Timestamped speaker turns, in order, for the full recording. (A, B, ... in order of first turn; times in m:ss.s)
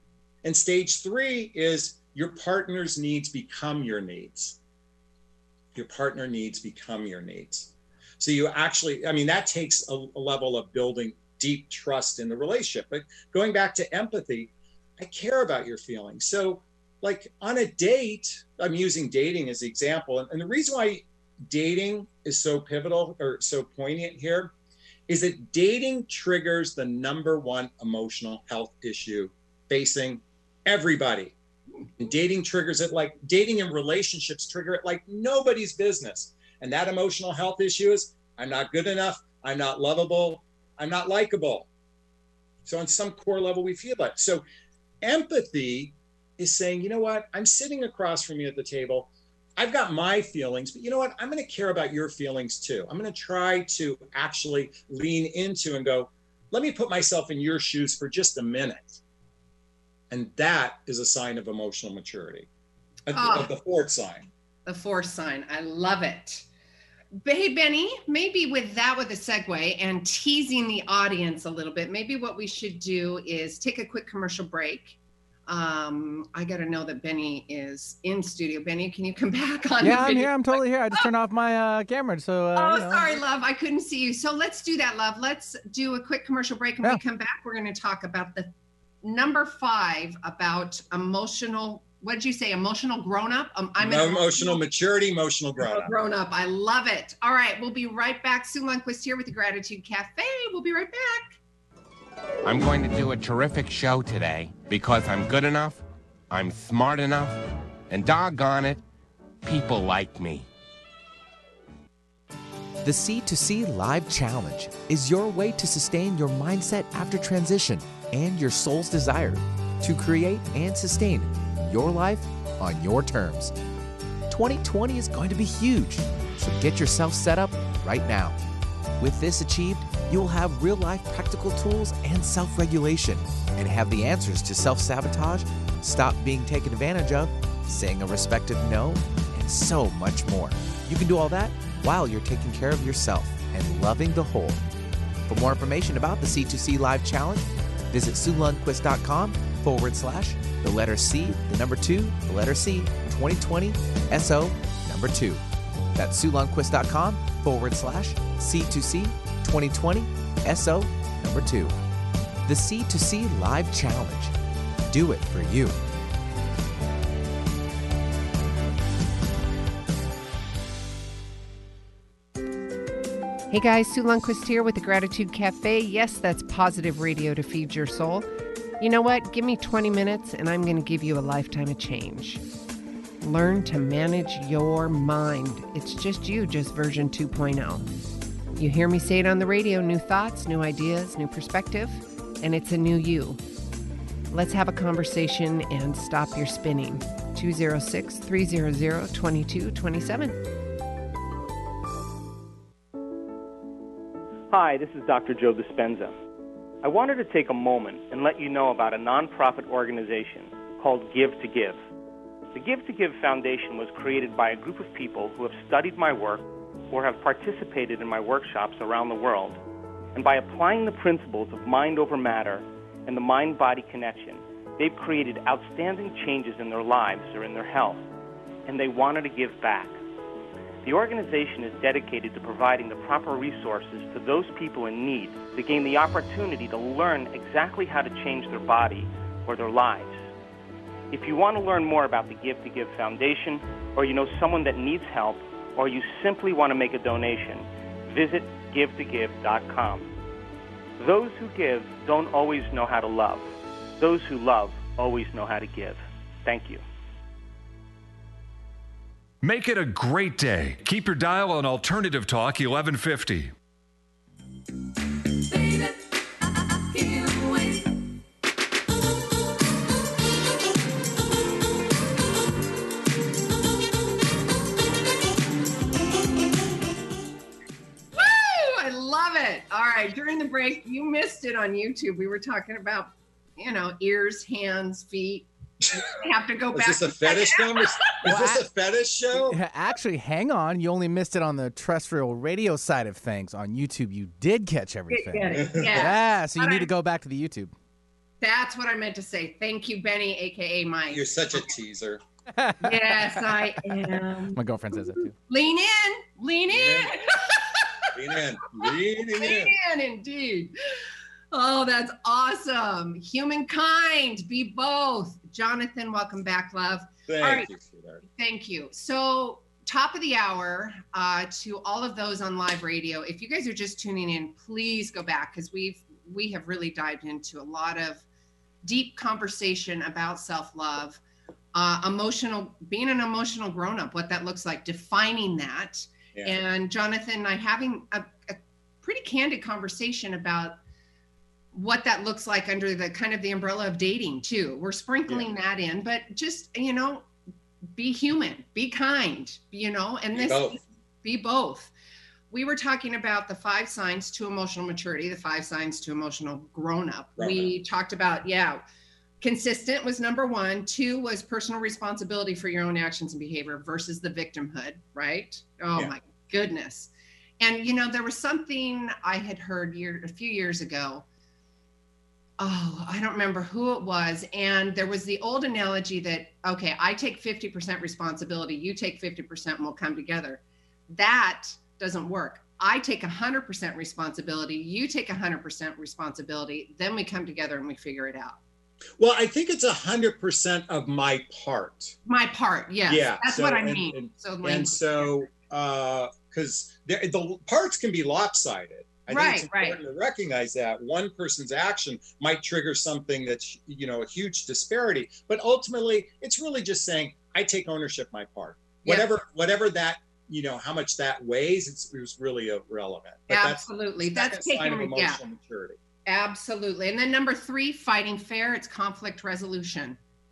0:00.4-0:04.6 A
0:05.7-0:24.5 A
0:25.1-0:31.4 A
0:32.0-0:41.7 A
0:42.6-0:44.4 A
0:45.0-0:59.0 A
1:00.1-1:02.5 A
1:03.1-1:04.3 A
1:03.1-1:03.5 B
1:04.6-1:06.5 B
1:07.2-1:21.1 B
1:19.8-1:23.1 C
1:19.9-1:20.3 D
1:22.5-1:28.5 B
1:29.0-1:34.6 B
1:33.8-1:35.9 A
1:35.6-1:41.4 B
1:42.4-1:47.3 E
1:47.9-1:48.8 E
1:49.4-1:50.4 E
1:52.8-2:03.5 D
2:04.3-2:08.4 D
2:09.0-2:24.6 D
2:25.3-2:35.4 D
2:35.9-2:41.7 D
2:42.4-2:44.3 D
2:44.9-2:45.8 D
2:53.5-2:58.3 B
2:58.8-3:02.4 B
3:03.2-3:07.9 B
3:08.5-3:13.4 B
3:14.3-3:20.4 B
3:24.5-3:26.1 F
3:26.8-3:31.8 F
3:32.5-3:39.6 F
3:40.1-3:48.0 F
3:48.6-3:49.9 F
3:50.8-4:00.3 F
4:01.1-4:10.1 F
4:11.0-4:16.8 F
4:19.4-4:23.5 G
4:38.1-4:48.0 B
4:45.8-4:46.1 A
4:46.7-4:49.6 A
4:48.2-4:48.6 C
4:49.5-4:57.7 C
4:49.5-4:50.2 D
4:50.7-4:53.5 D
4:54.2-4:55.9 D
4:55.1-4:56.9 B
4:55.7-4:56.0 A
4:56.4-4:57.5 D
4:58.4-5:01.7 B
5:01.1-5:02.2 A
5:02.7-5:03.0 C
5:02.8-5:08.1 B
5:04.5-5:05.3 C
5:06.7-5:07.2 A
5:08.1-5:09.8 A
5:08.8-5:10.7 B
5:11.5-5:17.7 B
5:17.3-5:18.2 A
5:18.2-5:28.2 B
5:28.8-5:31.2 B
5:31.7-5:40.8 B
5:36.3-5:36.6 A
5:41.7-5:47.3 B
5:47.9-5:51.9 B
5:50.3-5:50.8 A
5:52.5-5:58.8 B
5:57.4-5:57.7 A
5:59.4-6:11.2 B
6:12.6-6:28.6 B
6:29.2-6:32.2 A
6:32.2-6:35.3 B
6:33.1-6:56.0 A
6:39.3-6:40.0 B
6:49.0-6:49.3 B
6:53.5-6:55.4 B
6:56.2-7:00.2 B